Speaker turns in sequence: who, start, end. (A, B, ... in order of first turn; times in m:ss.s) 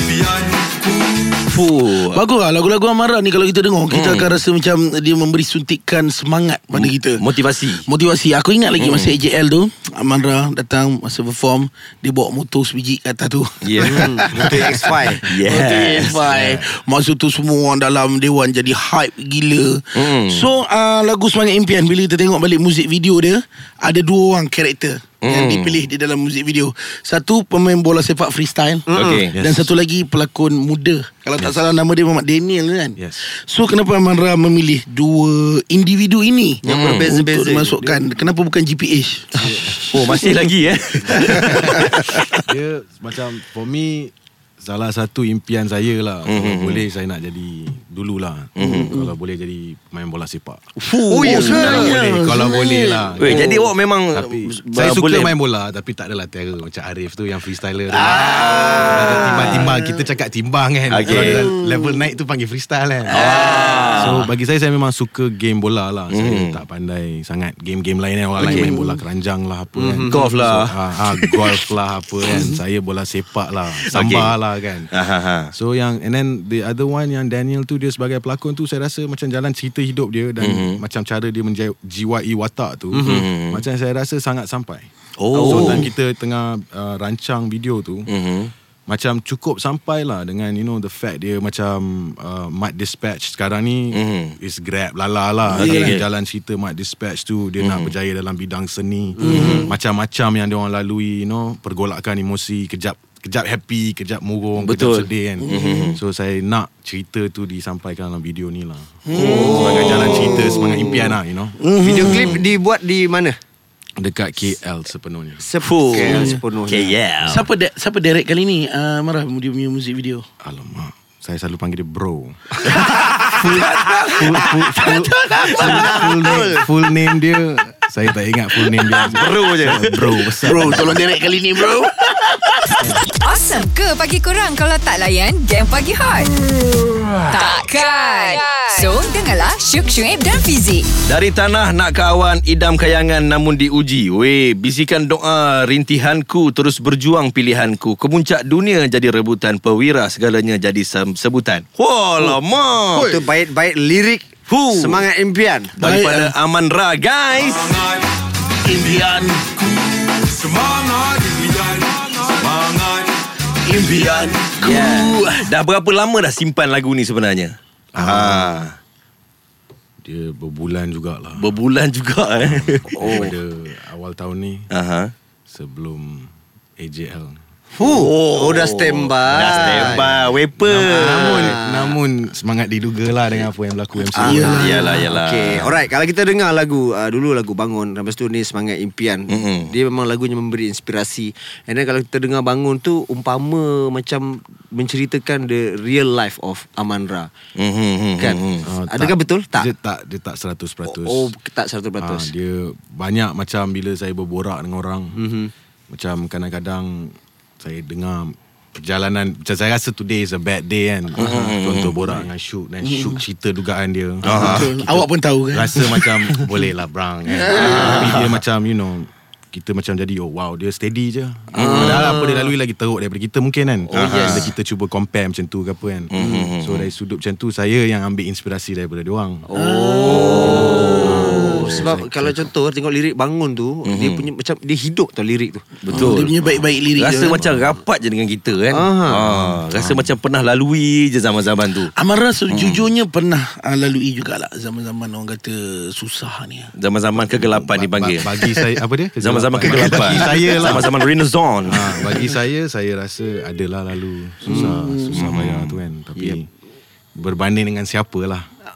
0:01.4-0:02.2 A
0:02.0-0:40.3 B
0:03.9-0:04.4 A
0:06.7-0:07.8 A
0:08.8-0:09.2 A
0:13.6-0:14.5 A
0:13.8-0:15.3 C
0:15.3-0:16.2 A
0:16.1-0:16.7 D
0:19.9-0:20.5 A
0:25.2-0:25.9 A
0:28.9-0:29.3 C
0:28.9-0:29.3 A
0:29.3-0:29.7 D
0:31.4-0:31.7 D
0:33.0-0:33.2 D
0:36.6-0:37.8 C
0:36.7-0:37.1 A
0:39.3-0:39.8 D
0:39.9-0:42.4 A
0:41.0-0:50.6 D
0:46.2-0:46.8 A
0:48.6-0:49.0 A
0:48.6-0:49.1 B
0:50.9-0:53.5 B
0:50.9-0:51.4 A
0:51.1-0:51.9 C
0:51.2-1:14.9 D
0:53.2-0:55.4 A
0:57.9-1:00.0 B
0:58.1-0:59.6 C
0:58.6-0:59.7 A
1:00.9-1:01.5 A
1:01.1-1:01.5 C
1:03.1-1:04.3 A
1:03.1-1:04.2 B
1:06.1-1:06.6 A
1:08.4-1:09.0 B
1:08.4-1:08.7 A
1:09.8-1:10.3 C
1:10.1-1:11.6 A
1:12.3-1:12.6 B
1:13.9-1:14.3 A
1:14.9-1:15.5 A
1:15.5-1:28.1 D
1:20.4-1:20.8 A
1:23.0-1:23.6 A
1:25.2-1:25.9 A
1:25.3-1:25.8 B
1:28.1-1:28.5 A
1:28.9-1:51.6 D
1:33.9-1:34.3 A
1:35.5-1:36.0 A
1:35.6-1:36.0 B
1:37.6-1:37.9 A
1:39.2-1:39.7 C
1:39.2-1:39.6 B
1:39.2-1:39.7 A
1:44.6-1:46.0 A
1:45.4-1:45.9 B
1:49.1-1:50.5 B
1:49.1-1:51.1 C
1:49.5-1:50.2 A
1:51.6-1:52.4 B
1:51.8-1:53.4 C
1:54.0-1:55.4 D
1:55.4-1:57.0 C
1:55.6-1:57.5 A
1:55.9-1:56.4 B
1:57.2-2:00.2 B
2:00.4-2:11.0 D
2:02.7-2:06.0 B
2:05.4-2:06.6 C
2:05.6-2:05.8 A
2:08.9-2:10.3 A
2:10.4-2:13.0 B
2:13.0-2:16.3 E
2:17.3-2:20.9 E
2:21.1-2:33.2 A
2:32.9-2:35.7 C
2:34.5-2:35.0 A
2:35.8-2:37.9 A
2:35.8-2:36.3 B
2:38.6-2:42.9 B
2:43.6-2:45.5 B
2:44.6-2:48.8 A
2:47.9-2:48.7 D
2:50.0-2:51.5 D
2:51.4-2:53.3 A
2:52.4-2:54.7 D
2:54.7-2:55.1 A
2:55.5-2:57.4 D
2:57.8-3:02.0 C
2:57.8-3:01.5 A
2:59.4-3:04.8 D
3:04.2-3:17.3 C
3:04.2-3:05.1 B
3:04.2-3:05.7 A
3:09.3-3:09.7 A
3:17.6-3:18.6 A
3:18.2-3:19.7 C
3:18.6-3:21.3 D
3:20.8-3:22.3 C
3:22.0-3:25.2 D
3:25.1-3:25.5 C
3:25.9-3:49.4 D
3:31.2-3:32.0 A
3:32.8-3:33.2 B
3:34.2-3:34.7 A
3:34.3-3:36.2 B
3:37.3-3:38.1 B
3:37.6-3:38.1 C
3:37.8-3:38.3 A
3:41.6-3:42.2 A
3:41.6-3:42.5 C
3:43.9-3:44.5 A
3:43.9-3:44.5 C
3:46.1-3:46.9 A
3:46.2-3:46.5 C
3:49.5-3:55.6 C
3:49.5-3:51.0 B
3:50.1-3:51.9 A
3:50.4-3:52.5 D
3:53.8-3:54.3 A
3:55.8-4:01.9 A
3:55.9-3:57.6 B
3:58.7-3:59.2 C
3:59.2-4:00.1 D
4:02.0-4:06.7 B
4:02.5-4:02.9 A
4:06.8-4:08.5 A
4:07.1-4:10.9 D
4:09.2-4:12.1 A
4:09.7-4:10.7 B
4:11.6-4:16.5 D
4:14.4-4:14.7 C
4:14.5-4:15.2 B
4:15.1-4:15.8 A
4:17.2-4:18.5 D